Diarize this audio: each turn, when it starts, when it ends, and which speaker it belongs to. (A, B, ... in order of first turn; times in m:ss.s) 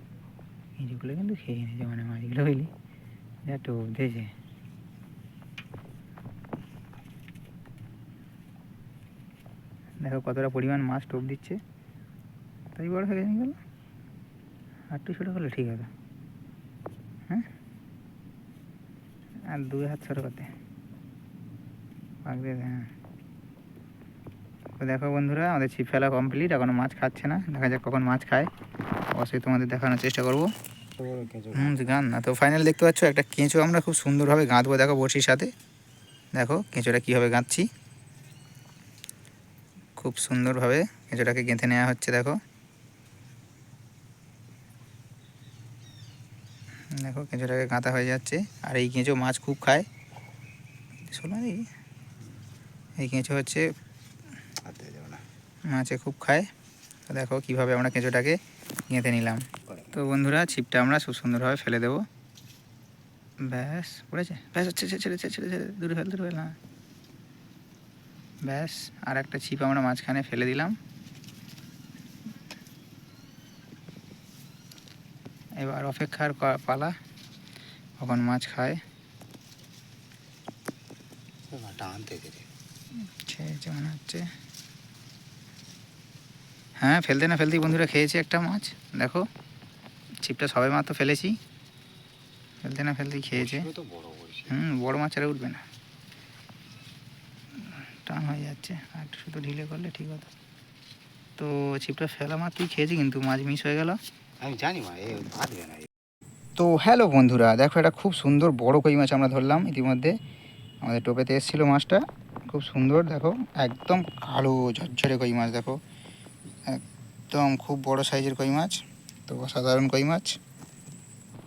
0:00.8-0:02.7 A
0:03.5-0:04.3 A
0:10.0-0:11.6 A
0:12.8-0:13.6 A
0:14.9-0:15.9 A
0:19.5-0:20.5 A
0:22.2-0:22.9 A
0:24.8-0:28.5 A
0:29.1-0:30.5 A
0:31.0-0:32.0 B
0:31.5-0:35.5 A
0:36.4-0:37.7 A
0:40.0-0:42.4 A
0:46.9-0:49.9 A
0:51.1-0:51.7 A
0:53.0-0:53.7 A
0:54.6-0:55.2 B
0:55.7-0:56.5 A
0:57.1-0:58.4 A
0:58.9-1:02.0 A
1:03.4-1:06.6 A
1:08.4-1:10.8 A
1:15.6-1:17.0 A
1:18.0-1:18.8 A
1:21.5-1:22.5 B
1:23.1-1:24.3 A
1:26.8-1:29.3 A
1:30.2-1:31.4 A
1:32.6-1:33.7 A
1:33.3-1:34.6 B
1:34.5-1:35.6 A
1:37.7-1:40.3 A
1:41.4-1:44.0 A
1:44.4-1:45.9 B
1:46.6-1:50.2 A
1:50.8-1:55.8 A
1:56.7-2:00.4 A